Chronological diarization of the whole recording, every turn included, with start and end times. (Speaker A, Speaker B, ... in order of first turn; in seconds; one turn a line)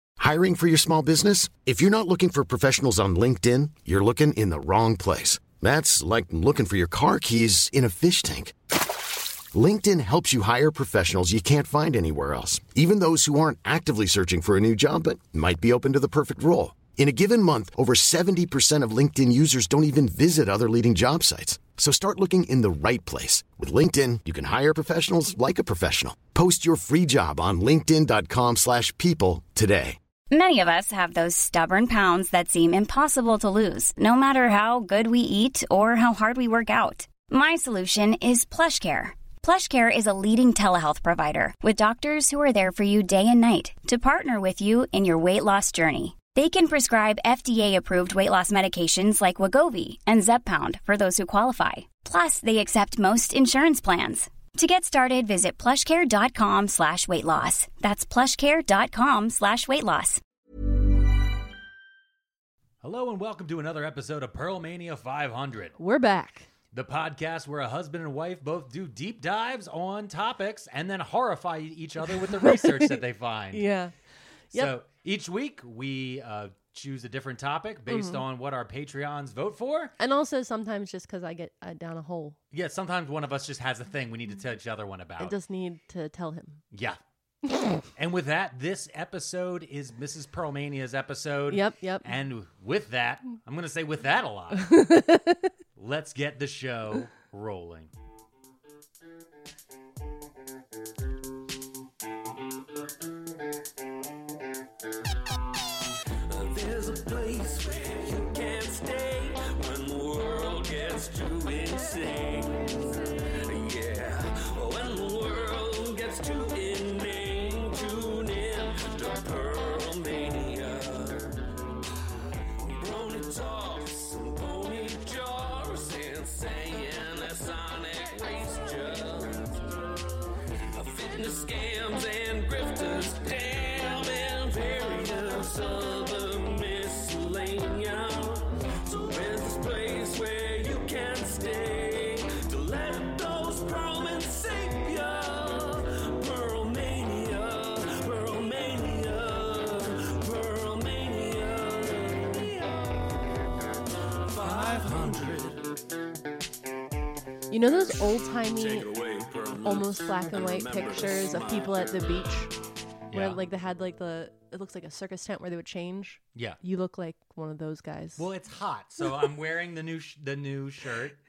Speaker A: 0.2-30.0
Speaker B: 30.3-60.2
Speaker C: 62.8-65.7
Speaker D: 65.8-66.5
Speaker C: 66.7-73.6
Speaker D: 72.2-73.0
Speaker D: 73.5-73.9
Speaker C: 74.5-79.9
Speaker D: 77.9-78.2
Speaker D: 80.0-82.4
Speaker C: 82.5-85.3
Speaker D: 85.2-86.6
Speaker C: 86.7-87.0
Speaker C: 88.0-94.8
Speaker D: 91.5-92.1
Speaker D: 94.6-95.4
Speaker C: 95.8-97.9
Speaker E: 106.3-121.4
Speaker E: 122.6-129.6
Speaker E: 130.7-153.0
Speaker E: 154.2-155.6
Speaker D: 157.5-158.9
Speaker E: 158.5-162.2
Speaker D: 159.6-162.5
Speaker C: 163.1-163.4
Speaker D: 163.1-168.2
Speaker C: 168.2-171.2